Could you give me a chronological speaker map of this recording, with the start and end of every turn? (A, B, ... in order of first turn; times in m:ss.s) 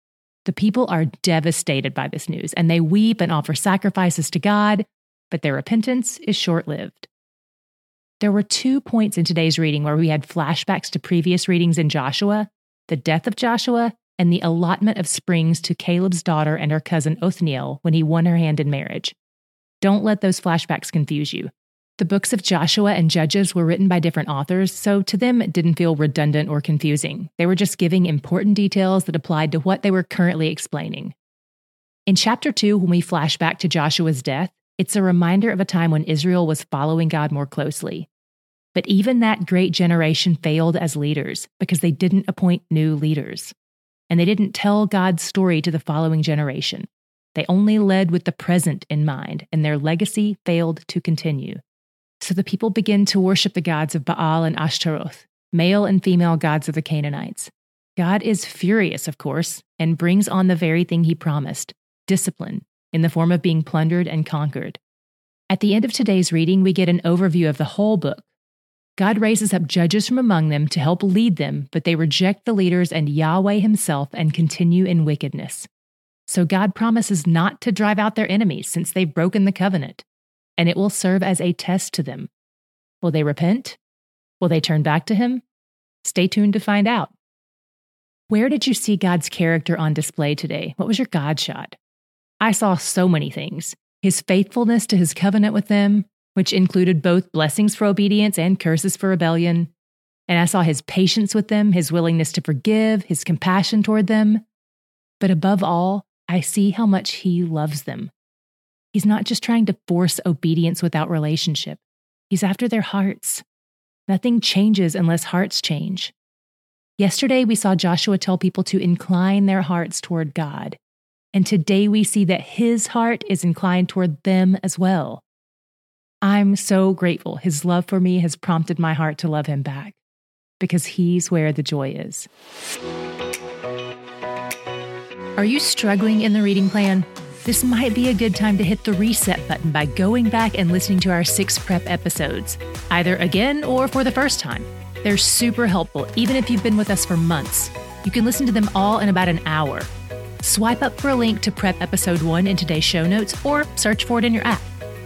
0:00.4-0:07.1 A
0:08.2-0:19.1 A
0:19.8-0:31.1 A
0:32.1-0:38.1 A
0:38.7-0:43.5 A
0:44.1-0:51.6 A
0:52.2-1:04.8 A
1:05.5-1:08.3 A
1:09.0-1:15.7 A
1:16.3-1:20.0 A
1:20.6-1:22.3 A
1:23.0-1:23.8 A
1:24.4-1:25.4 A
1:26.0-1:27.1 A
1:28.3-1:31.8 A
1:32.4-1:39.7 A
1:40.3-1:44.4 A
1:45.2-1:48.1 A
1:48.9-1:53.4 A
1:54.1-1:56.1 A
1:57.0-2:00.8 A
2:01.3-2:05.2 A
2:06.2-2:10.0 A
2:10.6-2:12.3 A
2:15.4-2:29.9 A
2:30.4-2:34.7 A